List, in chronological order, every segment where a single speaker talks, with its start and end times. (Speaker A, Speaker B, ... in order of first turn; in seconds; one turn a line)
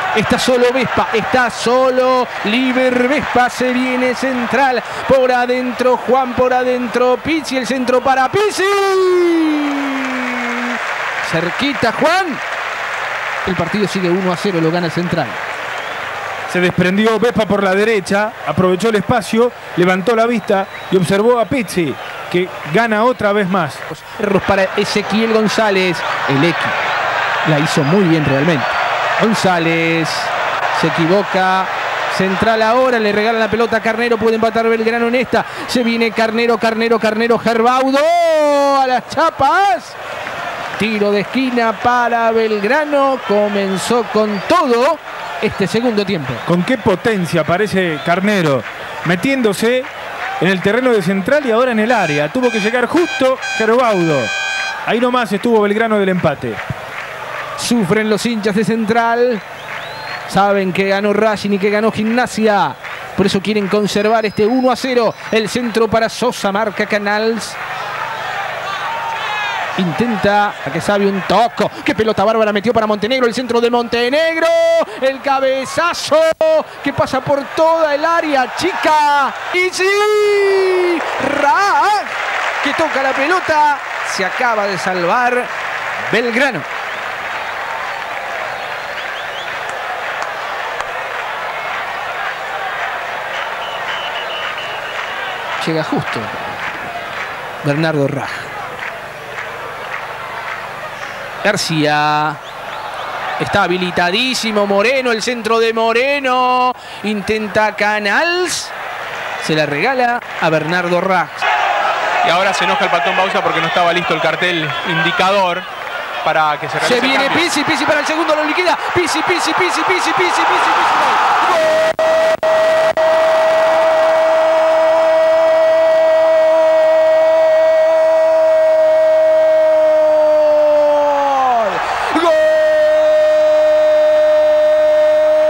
Speaker A: 0.1-12.4
Speaker A: 13.4-15.4
Speaker B: 16.5-23.8
Speaker A: 23.9-26.8
Speaker A: 27.4-40.0
Speaker A: 40.8-46.4
Speaker B: 46.5-49.9
Speaker B: 50.4-54.3
Speaker B: 54.9-56.6
Speaker A: 57.6-59.4
Speaker A: 60.3-67.6
Speaker A: 69.8-82.1
Speaker A: 82.6-85.5
Speaker A: 86.1-86.7
Speaker A: 95.6-96.4
Speaker A: 97.6-98.5
Speaker A: 101.4-102.4
Speaker A: 103.4-108.7
Speaker A: 109.4-111.4
Speaker C: 112.2-115.7
Speaker C: 116.2-117.5
Speaker A: 116.8-121.3
Speaker A: 131.4-133.0